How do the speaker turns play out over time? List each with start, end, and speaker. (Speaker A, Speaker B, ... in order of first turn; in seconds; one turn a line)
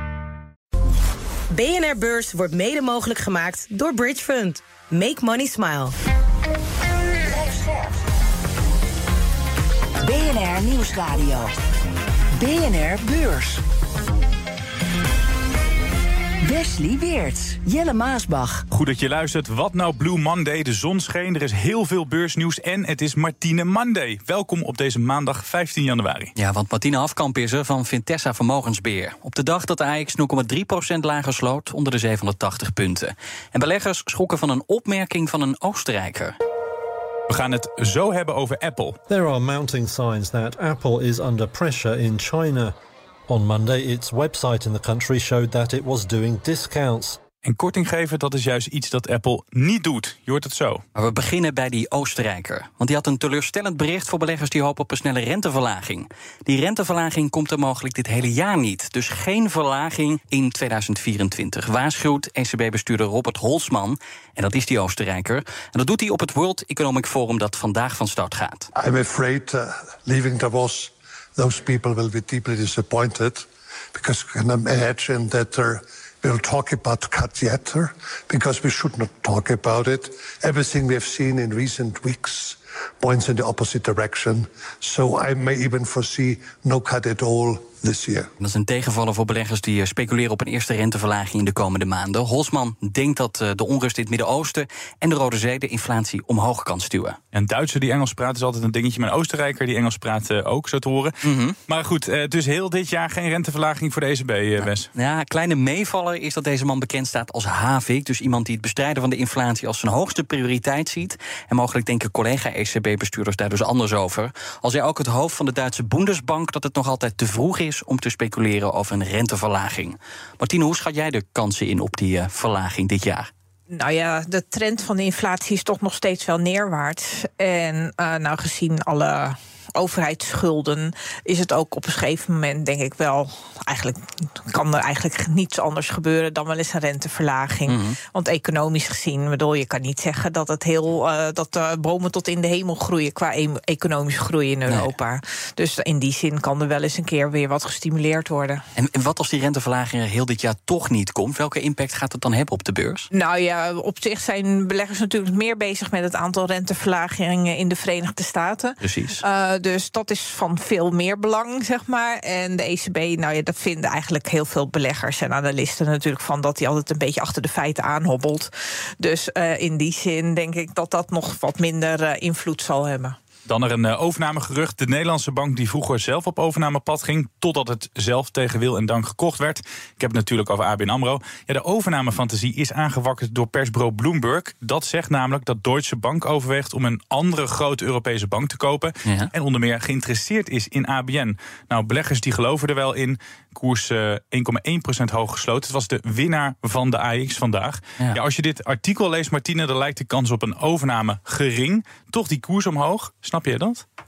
Speaker A: 1.5-5.9
Speaker B: 10.0-11.5
Speaker B: 12.4-13.6
Speaker B: 16.4-18.6
Speaker C: 18.7-26.3
Speaker D: 26.4-36.3
Speaker C: 37.3-39.0
Speaker E: 39.1-42.7
Speaker E: 43.3-47.2
Speaker C: 47.4-50.8
Speaker D: 50.9-68.7
Speaker F: 68.8-88.3
Speaker D: 88.4-97.2
Speaker C: 97.3-101.2
Speaker D: 101.2-101.6
Speaker C: 101.7-104.9
Speaker D: 104.6-123.3
Speaker G: 123.7-148.6
Speaker D: 137.7-138.0
Speaker D: 148.8-153.1
Speaker G: 153.1-173.2
Speaker D: 158.8-159.2
Speaker C: 173.5-203.8